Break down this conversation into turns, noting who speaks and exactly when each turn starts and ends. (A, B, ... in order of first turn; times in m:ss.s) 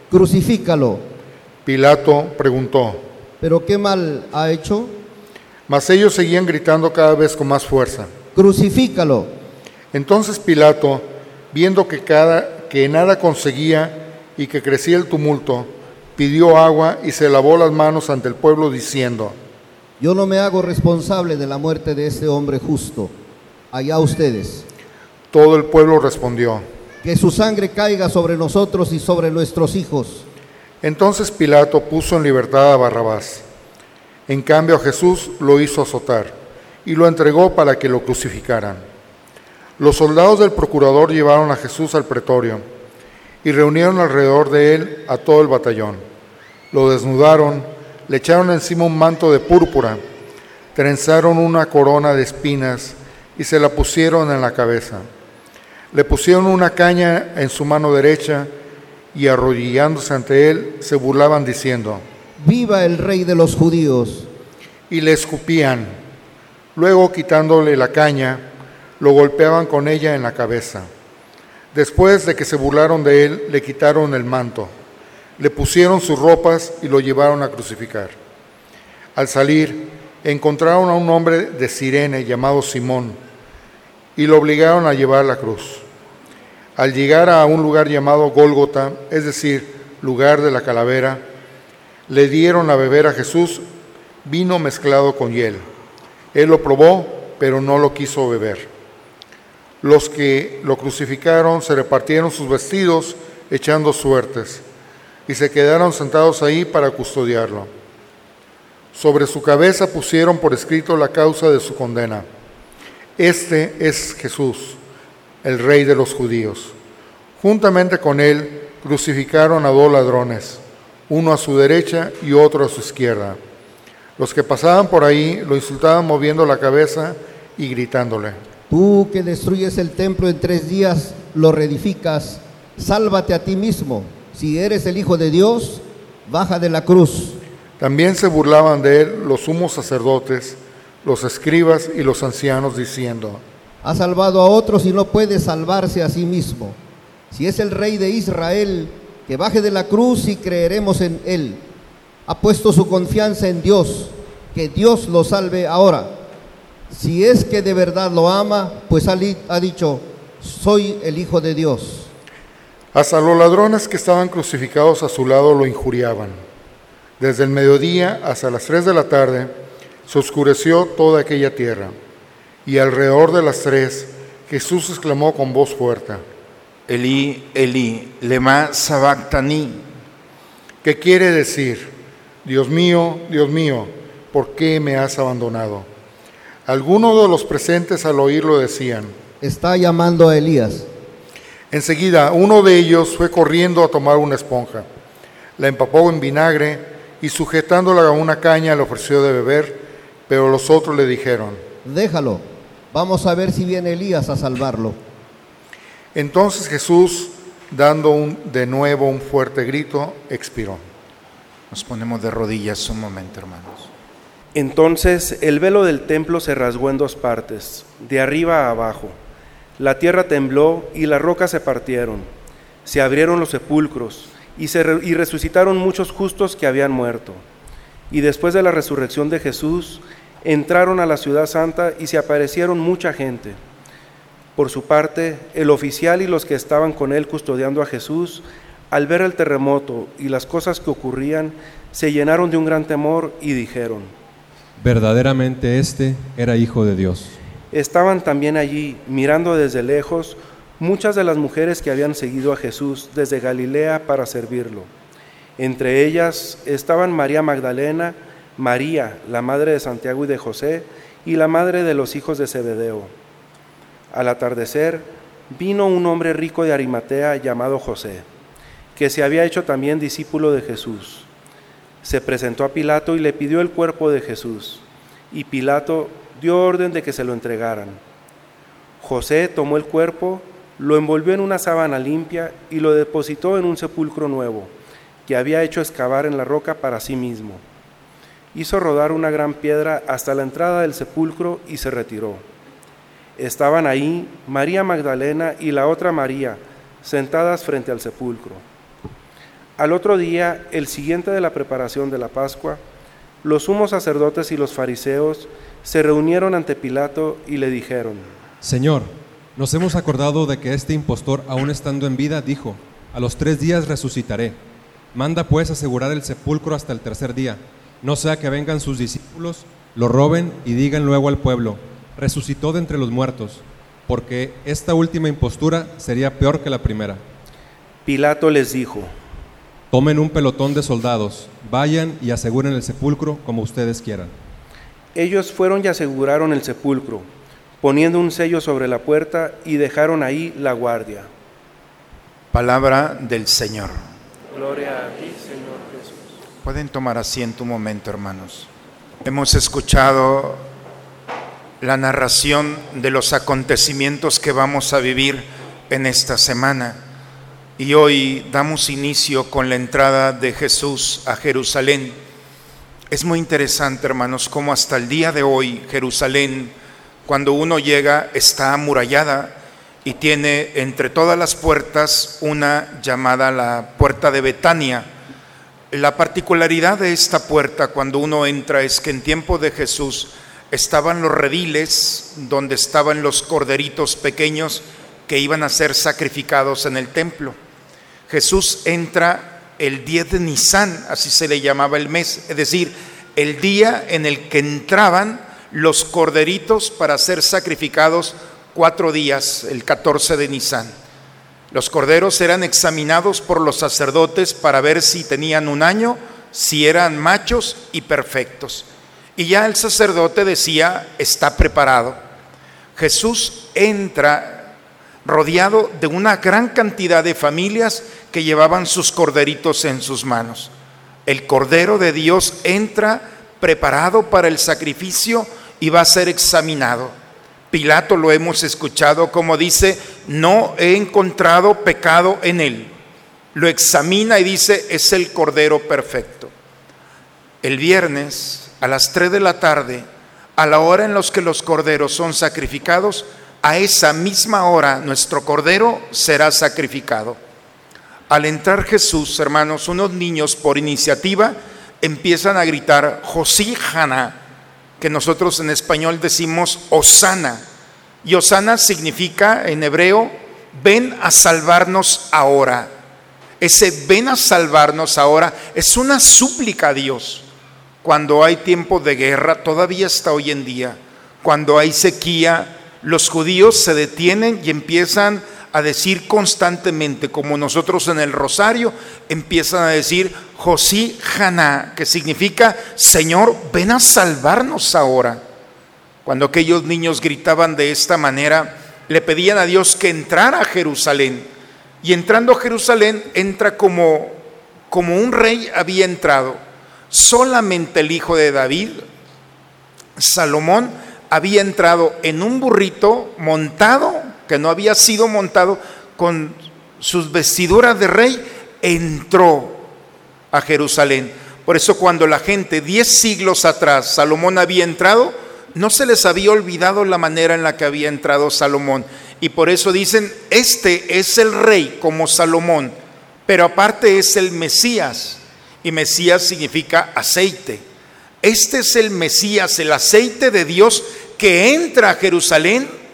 0:00.1-0:01.0 A
0:01.6-0:03.0 B
0:03.4-0:05.0 A
0:05.7-0:08.1 B
0:08.3-0:09.3 A
0:09.9-0:19.4 B
0:20.0-0:23.1 A
0:23.7-0:24.6 A
0:25.3-0:26.6 B
0:27.0-0:30.2 A
0:30.8-0:33.4 B
0:34.3-0:38.8 B
0:39.8-0:42.6 B
0:43.4-0:46.0 B
0:46.7-0:50.0 B
0:50.7-0:55.0 B
0:55.9-0:58.5 B
0:59.1-1:02.0 B
1:02.4-1:04.3 A
1:04.9-1:06.0 B
1:06.7-1:08.5 B
1:09.0-1:10.9 B
1:11.7-1:14.7 B
1:15.4-1:18.2 B
1:19.1-1:23.2 B
1:24.2-1:25.8 B
1:26.8-1:31.2 B
1:32.1-1:33.6 B
1:34.2-1:35.7 B
1:36.3-1:38.7 B
1:39.8-1:44.6 B
1:45.3-1:47.7 B
1:48.9-1:52.2 B
1:53.2-1:54.8 B
1:55.4-1:56.7 B
1:57.4-2:03.4 B
2:04.2-2:08.4 B
2:08.7-2:17.4 A
2:17.8-2:23.4 B
2:23.8-2:26.8 A
2:27.3-2:31.6 A
2:32.3-2:36.1 A
2:36.9-2:42.1 A
2:42.9-2:46.4 B
2:47.2-2:49.5 B
2:50.0-2:51.9 B
2:52.6-2:56.2 B
2:56.9-2:59.8 C
3:00.8-3:05.9 B
3:06.6-3:09.2 B
3:09.4-3:10.9 A
3:11.7-3:14.9 B
3:15.6-3:21.6 B
3:21.8-3:25.0 A
3:26.1-3:30.8 B
3:31.7-3:33.9 C
3:34.5-3:39.2 D
3:39.8-3:42.3 D
3:42.8-3:47.4 D
3:48.1-3:53.6 D
3:54.6-4:04.1 D
4:04.8-4:07.4 E
4:07.7-4:14.9 D
4:15.6-4:23.1 D
4:24.1-4:28.2 D
4:29.0-4:31.3 D
4:32.0-4:38.0 D
4:39.0-4:44.7 D
4:45.2-4:47.6 D
4:48.5-4:52.4 D
4:53.4-4:58.6 D
4:59.8-5:02.8 D
5:03.4-5:08.3 D
5:08.6-5:14.6 E
5:15.1-5:27.2 E
5:28.0-5:29.1 D
5:29.9-5:34.3 E
5:35.1-5:37.3 D
5:37.8-5:41.3 D
5:42.5-5:44.0 C
5:44.5-5:46.4 D
5:46.6-5:48.7 C
5:49.2-5:50.7 C
5:51.8-5:57.0 C
5:57.8-6:02.2 C
6:03.1-6:06.7 C
6:07.2-6:15.1 C
6:15.9-6:27.6 C
6:28.3-6:40.9 C
6:41.7-6:52.2 C
6:53.0-6:54.7 C
6:55.2-7:00.7 C
7:01.2-7:07.1 C
7:07.7-7:12.9 C
7:13.5-7:16.5 C
7:17.6-7:27.4 C
7:28.3-7:34.4 C
7:35.0-7:37.6 C
7:38.2-7:42.9 C
7:43.6-7:47.4 C
7:48.0-8:05.4 C
8:06.2-8:11.5 C
8:12.0-8:16.6 C
8:17.1-8:19.0 C
8:20.2-8:29.9 C
8:30.5-8:47.8 C
8:48.4-8:53.0 C